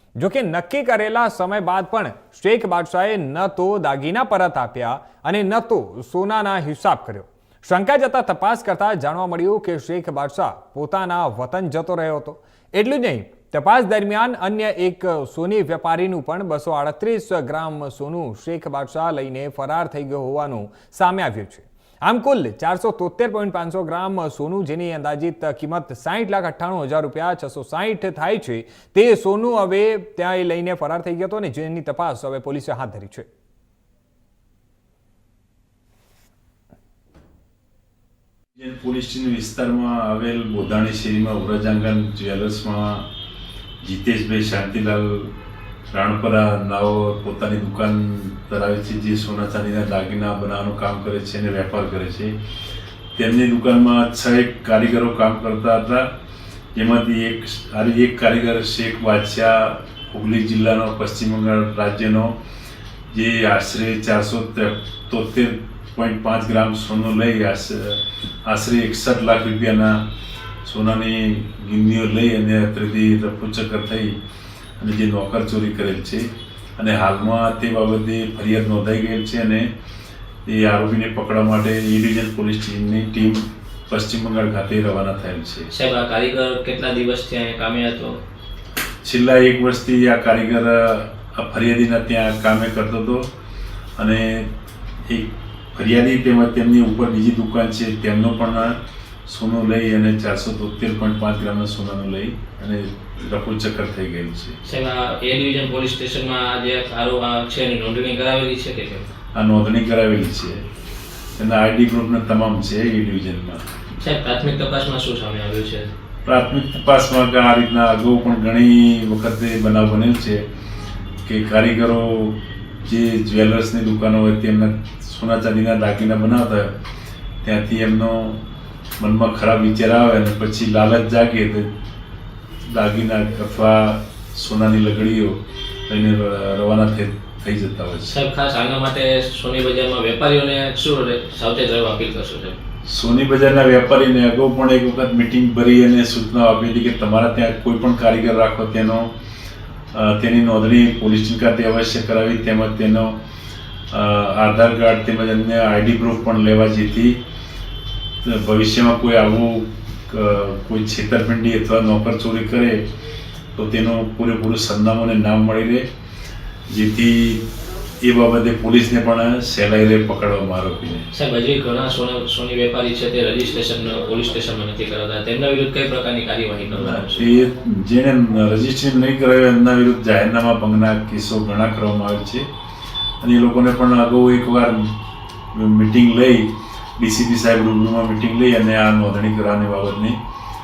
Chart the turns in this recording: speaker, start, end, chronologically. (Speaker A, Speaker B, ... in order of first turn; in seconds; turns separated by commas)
Speaker A: 0.2-33.3, Speaker B: 38.6-43.1, Speaker B: 43.8-45.3, Speaker B: 45.9-52.3, Speaker B: 53.1-56.1, Speaker B: 56.7-62.4, Speaker B: 63.1-70.1, Speaker B: 70.6-74.2, Speaker B: 74.8-79.7, Speaker B: 80.5-85.7, Speaker C: 85.7-88.2, Speaker B: 89.0-93.3, Speaker B: 94.0-94.5, Speaker B: 95.1-104.6, Speaker C: 104.6-109.1, Speaker B: 109.3-110.6, Speaker B: 111.4-113.6, Speaker C: 114.0-115.9, Speaker B: 116.2-120.5, Speaker B: 121.2-126.7, Speaker B: 127.4-128.4, Speaker B: 129.0-131.7, Speaker B: 132.6-138.1, Speaker C: 138.1-142.6, Speaker B: 142.8-149.1, Speaker B: 149.9-153.2, Speaker B: 153.9-157.2, Speaker B: 158.2-162.9, Speaker B: 163.5-165.9, Speaker B: 166.7-167.4, Speaker B: 168.0-171.1, Speaker C: 171.1-177.3, Speaker B: 176.8-182.5, Speaker B: 183.2-184.9, Speaker B: 185.5-190.2